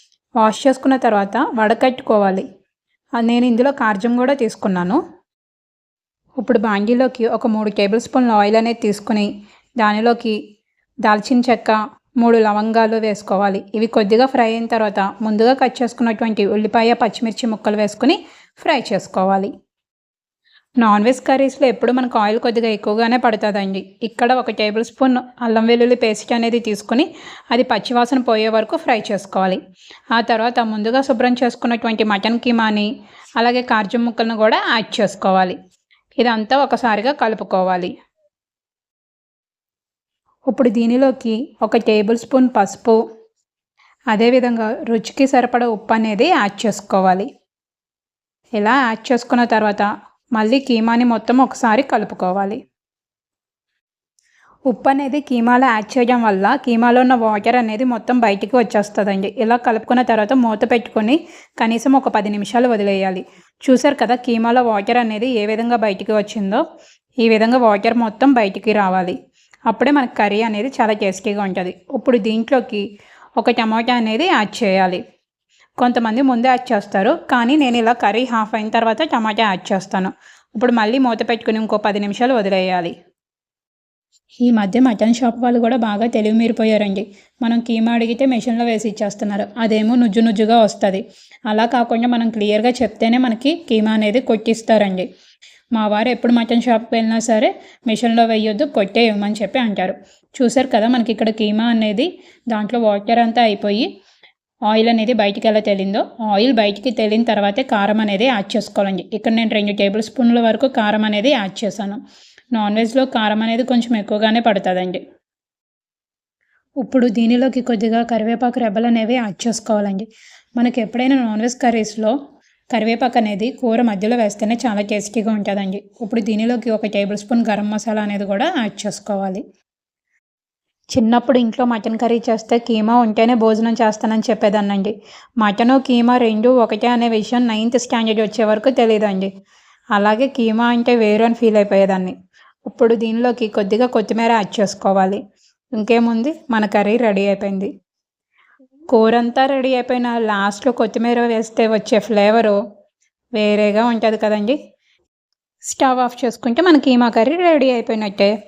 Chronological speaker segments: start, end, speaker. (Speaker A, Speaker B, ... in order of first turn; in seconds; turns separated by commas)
Speaker A: 0.4-2.4, Speaker A: 3.2-5.0, Speaker A: 6.4-9.3, Speaker A: 9.8-10.4, Speaker A: 11.0-19.5, Speaker A: 20.8-29.6, Speaker A: 30.1-32.9, Speaker A: 33.4-35.5, Speaker A: 36.2-37.9, Speaker A: 40.5-43.0, Speaker A: 44.1-47.3, Speaker A: 48.5-52.6, Speaker A: 54.7-66.6, Speaker A: 67.2-69.2, Speaker A: 69.7-72.8, Speaker A: 73.4-75.0, Speaker A: 75.8-82.9, Speaker A: 84.4-95.0, Speaker A: 95.7-103.9, Speaker A: 104.7-112.0, Speaker A: 112.5-115.0, Speaker A: 116.8-122.1, Speaker A: 122.7-129.4, Speaker A: 130.9-139.3, Speaker A: 139.9-142.1, Speaker A: 142.7-145.2, Speaker A: 145.7-147.7, Speaker A: 148.9-152.6, Speaker A: 153.3-154.6, Speaker A: 155.6-158.3